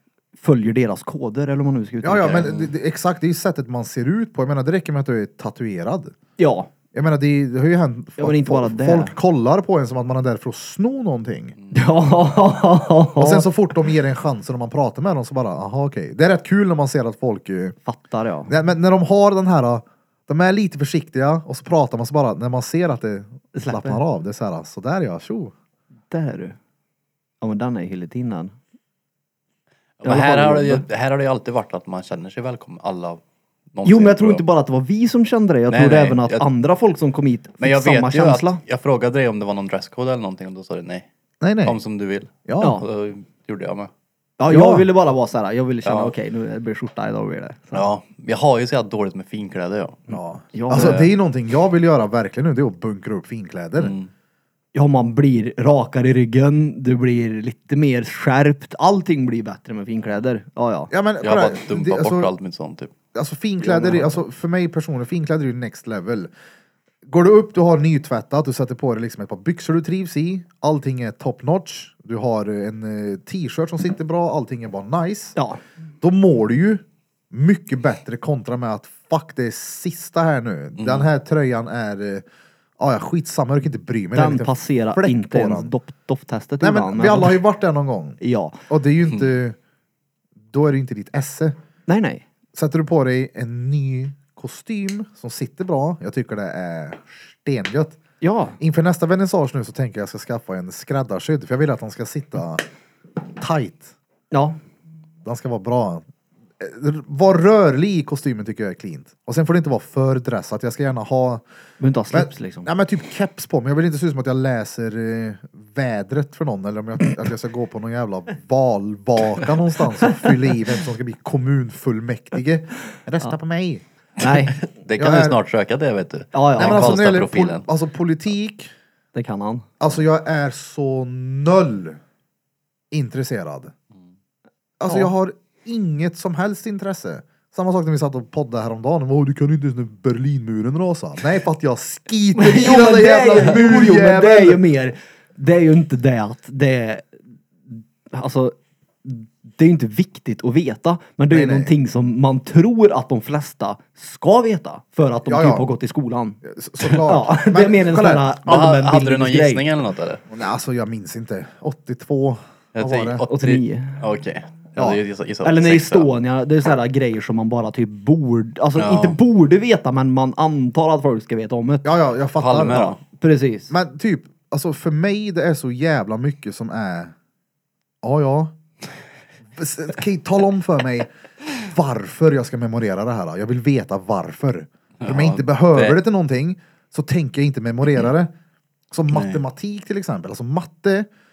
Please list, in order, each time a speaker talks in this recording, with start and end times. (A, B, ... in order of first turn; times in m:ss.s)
0:00.4-0:02.6 A
0:02.0-0:06.1 B
0:06.4-0:06.7 A
0:06.9-0:11.6 B
0:08.2-0:09.1 A
0:11.6-0:11.8 C
0:11.7-0:13.5 A
0:13.2-0:17.8 B
0:17.8-0:18.5 A
0:18.5-0:25.5 B
0:23.5-0:24.0 A
0:26.1-0:26.6 A
0:27.4-0:28.5 A
0:30.0-0:33.2 C
0:30.0-0:30.8 A
0:33.7-0:34.4 C
0:33.8-0:38.6 A
0:35.7-0:36.4 C
0:37.6-0:41.1 C
0:41.4-0:41.8 B
0:41.6-0:43.9 C
0:42.4-0:42.8 B
0:42.6-0:42.8 A
0:44.4-0:47.8 A
0:44.5-0:44.9 B
0:45.8-0:46.1 C
0:47.7-0:50.1 C
0:50.1-0:53.9 B
0:50.5-0:51.0 A
0:50.7-0:51.1 C
0:53.8-0:54.1 C
0:54.7-1:00.9 A
1:00.9-1:02.3 B
1:01.2-1:02.9 C
1:03.1-1:06.3 B
1:03.6-1:04.0 A
1:07.0-1:15.4 B
1:16.0-1:22.2 B
1:20.8-1:21.1 C
1:22.8-1:25.7 B
1:24.1-1:27.4 A
1:26.6-1:29.6 B
1:28.2-1:28.6 A
1:30.5-1:31.6 B
1:31.9-1:32.2 A
1:32.5-1:38.0 B
1:38.2-1:38.6 A
1:38.6-1:42.6 B
1:43.4-1:43.9 B
1:44.3-1:44.6 A
1:45.2-1:46.0 B
1:46.6-1:51.4 B
1:51.8-1:52.7 A
1:52.1-2:03.8 B
2:04.2-2:04.6 A
2:04.6-2:07.6 C
2:05.0-2:05.4 B
2:06.3-2:06.9 A
2:06.6-2:08.7 B
2:09.1-2:09.7 A
2:09.8-2:12.0 B
2:12.9-2:13.7 B
2:14.8-2:24.6 B
2:22.3-2:27.1 A
2:27.7-2:39.6 A
2:31.3-2:31.7 B
2:35.2-2:35.7 B
2:36.4-2:38.3 B
2:38.4-2:40.2 C
2:40.3-2:43.2 B
2:42.7-2:46.1 C
2:43.3-2:44.0 A
2:45.4-2:51.9 A
2:48.8-2:49.2 C
2:51.8-2:53.0 B
2:52.4-2:53.0 C
2:52.8-2:53.7 A
2:53.7-2:57.1 B
2:58.0-2:58.5 B
2:59.5-3:08.3 B
3:05.0-3:06.0 C
3:08.9-3:11.1 B
3:09.1-3:09.4 C